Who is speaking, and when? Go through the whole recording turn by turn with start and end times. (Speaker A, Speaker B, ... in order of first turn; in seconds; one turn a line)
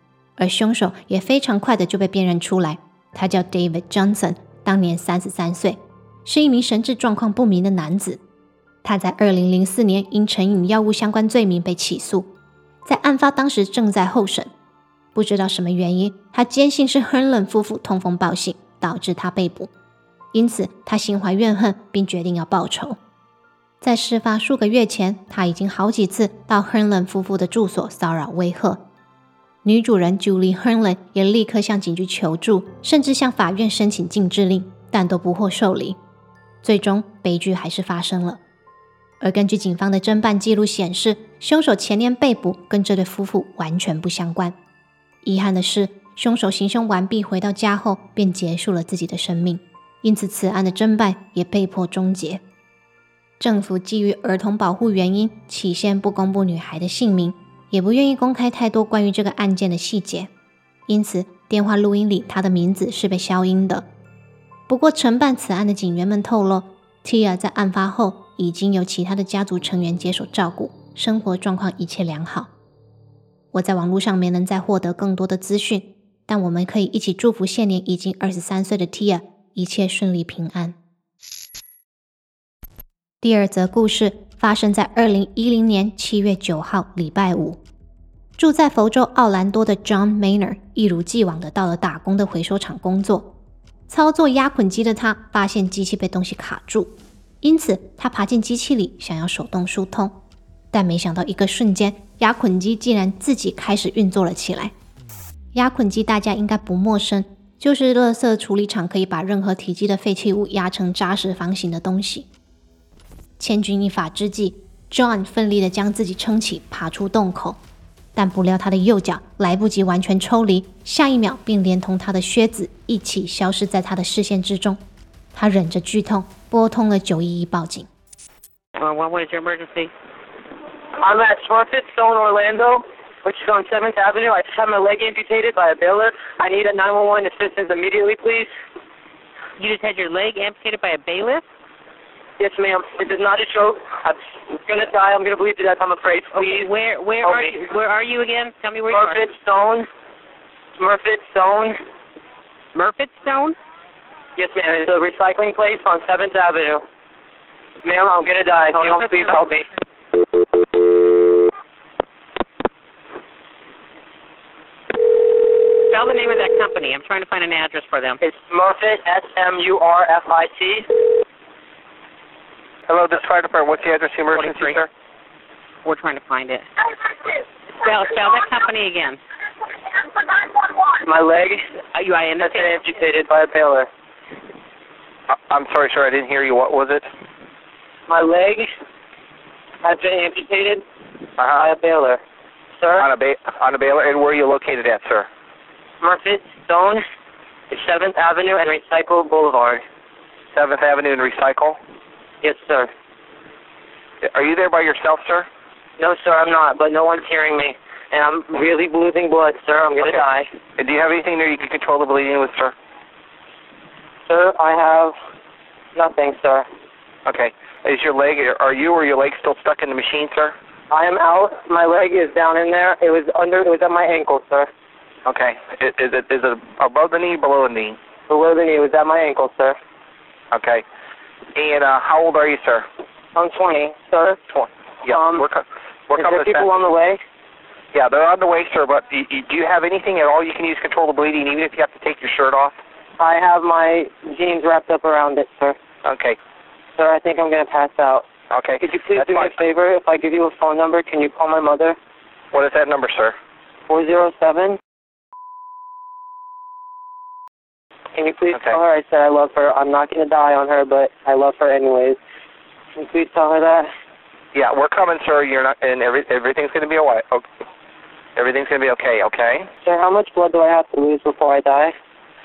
Speaker A: 0.4-8.2
Speaker A: 8.8-12.3
Speaker A: 12.8-14.5
Speaker A: 15.2-19.7
Speaker A: 20.3-23.0
Speaker A: 23.8-28.8
Speaker A: 29.6-36.0
Speaker A: 36.6-38.4
Speaker A: 39.2-44.5
Speaker A: 45.2-52.4
Speaker A: 53.4-60.3
Speaker A: 60.9-63.9
Speaker A: 64.7-72.5
Speaker A: 73.5-80.8
Speaker A: 83.2-87.6
Speaker A: 88.4-93.3
Speaker A: 93.9-100.2
Speaker A: 100.7-104.7
Speaker A: 105.5-112.3
Speaker A: 113.4-117.6
Speaker A: 118.2-124.8
Speaker A: 125.3-127.9
Speaker B: 128.8-129.9
Speaker C: 131.0-138.5
Speaker B: 139.6-141.4
Speaker C: 142.4-146.7
Speaker B: 146.3-149.2
Speaker C: 147.2-147.6
Speaker C: 148.9-149.9
Speaker C: 150.8-151.8
Speaker B: 152.7-153.6
Speaker C: 154.4-156.8
Speaker C: 157.8-159.7
Speaker B: 158.7-159.5
Speaker B: 165.9-168.2
Speaker C: 168.2-170.9
Speaker D: 172.9-174.9
Speaker B: 174.3-174.8
Speaker B: 175.8-176.7
Speaker B: 177.8-179.2
Speaker C: 181.0-181.6
Speaker B: 181.9-182.8
Speaker C: 182.4-183.9
Speaker D: 185.3-187.1
Speaker C: 188.1-188.7
Speaker C: 189.8-190.8
Speaker C: 191.4-192.2
Speaker C: 192.8-193.1
Speaker D: 193.0-195.3
Speaker C: 196.0-197.0
Speaker C: 197.7-199.8
Speaker D: 200.5-201.8
Speaker C: 202.4-202.9
Speaker D: 204.2-205.5
Speaker C: 206.0-210.5
Speaker D: 210.8-212.8
Speaker C: 214.3-215.2
Speaker C: 215.9-216.7
Speaker D: 217.2-220.6
Speaker C: 220.9-224.7
Speaker D: 225.2-228.0
Speaker C: 228.3-229.8
Speaker D: 230.5-230.8
Speaker D: 231.6-232.8
Speaker C: 233.3-234.4
Speaker D: 234.5-236.7
Speaker C: 235.1-235.4
Speaker C: 236.2-237.2
Speaker D: 237.9-242.8
Speaker C: 243.2-245.8
Speaker D: 246.0-246.4
Speaker C: 247.0-248.3
Speaker D: 248.5-249.6
Speaker C: 248.8-252.0
Speaker D: 252.5-253.4
Speaker C: 253.9-254.8
Speaker C: 258.1-262.2
Speaker D: 258.5-258.8
Speaker C: 263.0-263.9
Speaker D: 264.5-267.4
Speaker D: 268.4-269.7
Speaker C: 269.8-271.9